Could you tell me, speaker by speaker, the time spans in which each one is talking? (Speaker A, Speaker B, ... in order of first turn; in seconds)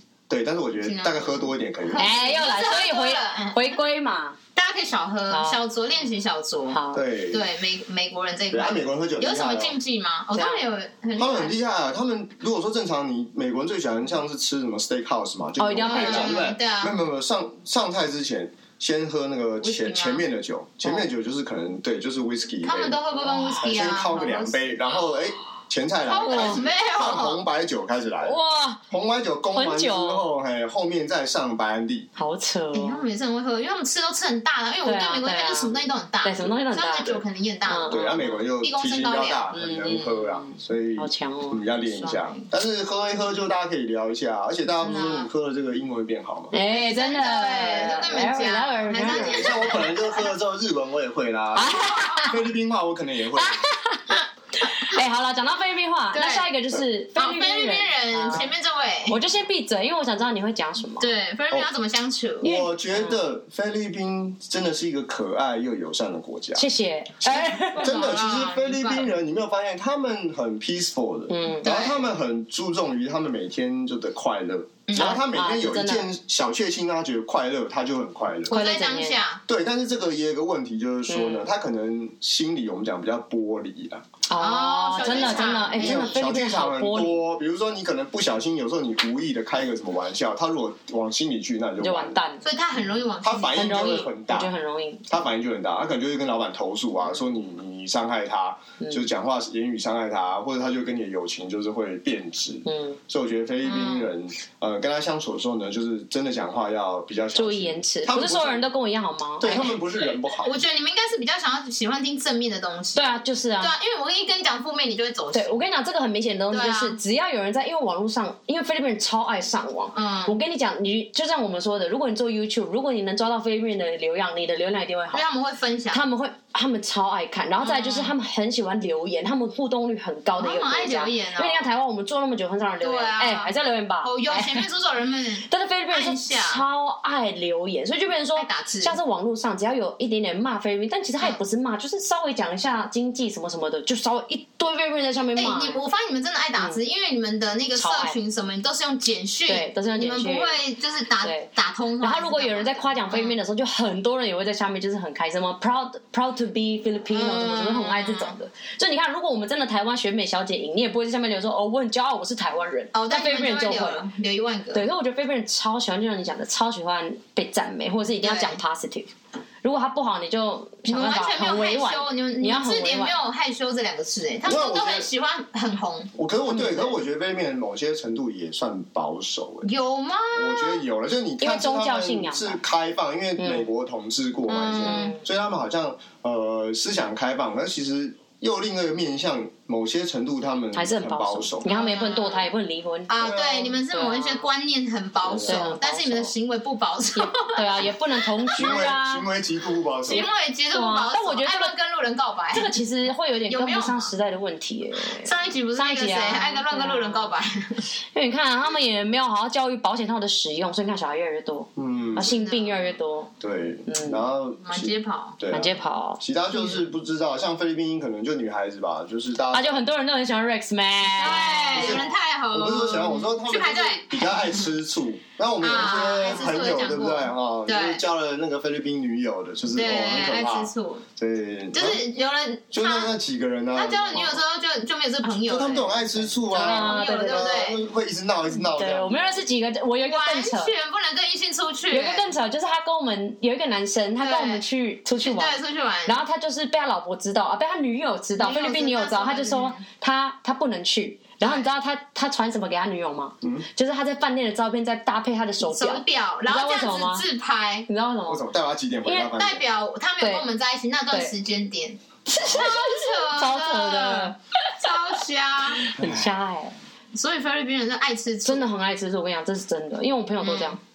Speaker A: 0.3-2.2, 6.9-7.5, 8.5-9.8, 11.2-28.4, 28.9-32.1, 37.9-46.5, 49.0-53.6, 62.4-66.7, 67.2-78.5, 79.5-84.0, 85.0-92.2, 93.2-94.5, 95.1-108.7, 109.4-110.5, 174.4-175.1, 176.1-179.7, 180.3-191.7, 193.2-193.8, 195.2-195.8, 198.6-200.2, 211.8-212.3, 213.4-219.8, 221.7-232.0, 232.7-234.4, 235.4-239.4, 258.3-259.6, 266.0-266.3
Speaker B: 0.8-3.7, 4.5-11.5, 15.8-16.9, 19.6-20.2, 22.6-24.9, 26.0-27.4, 32.7-39.5, 41.8-42.5, 44.8-45.3, 46.7-50.1, 51.8-52.2, 56.1-56.5, 57.1-59.2, 61.0-62.5, 67.6-69.1, 71.6-72.1, 74.9-75.1, 78.5-79.4, 84.4-86.1, 92.4-94.1, 103.6-104.1, 110.4-115.6, 116.5-117.0, 119.9-120.3, 125.1-126.1, 127.6-128.1, 130.4-131.7, 132.8-136.6, 138.3-138.9, 145.3-153.4, 157.1-158.3, 162.9-164.9, 168.2-168.6, 170.8-176.1, 179.6-180.8, 184.5-185.2, 191.6-192.5, 193.1-198.8, 200.1-202.7, 203.5-204.1, 205.1-207.8, 212.2-213.0, 214.6-215.4, 216.5-216.8, 221.2-224.7, 225.6-228.0, 229.7-231.0, 231.7-233.1, 233.7-237.8, 240.1-242.3, 244.2-244.6, 245.2-246.2, 248.4-249.8, 251.4-251.7, 255.7-257.9, 259.3-265.9, 267.1-268.6, 270.4-270.8
Speaker C: 2.0-4.4, 5.3-5.6, 6.7-7.0, 10.3-10.7, 15.6-16.4, 20.8-21.1, 23.2-23.7, 26.2-26.6, 28.2-28.8, 29.5-30.3, 32.1-33.0, 34.8-38.5, 39.5-41.6, 46.5-49.7, 51.5-52.4, 53.4-58.5, 59.1-61.1, 62.4-63.2, 66.6-67.9, 71.3-71.7, 74.9-76.1, 78.5-79.2, 81.1-81.5, 84.3-87.2, 91.8-92.4, 93.5-95.0, 98.8-99.0, 102.7-103.0, 107.3-109.7, 112.9-113.7, 115.3-125.2, 125.9-134.7, 135.5-145.8, 147.8-148.2, 149.5-150.6, 151.2-151.5, 152.0-164.0, 164.7-169.1, 169.6-173.2, 176.5-176.9, 181.4-182.6, 183.4-183.7, 184.8-185.2, 190.7-193.4, 193.9-194.4, 195.4-196.3, 197.2-199.3, 200.1-201.7, 202.5-207.3, 208.1-213.3, 213.9-214.2, 215.5-216.2, 219.5-222.1, 236.5-237.7, 238.7-240.7, 241.9-257.2, 257.9-258.4, 259.1-259.3, 262.3-264.7, 265.8-266.8, 268.4-270.8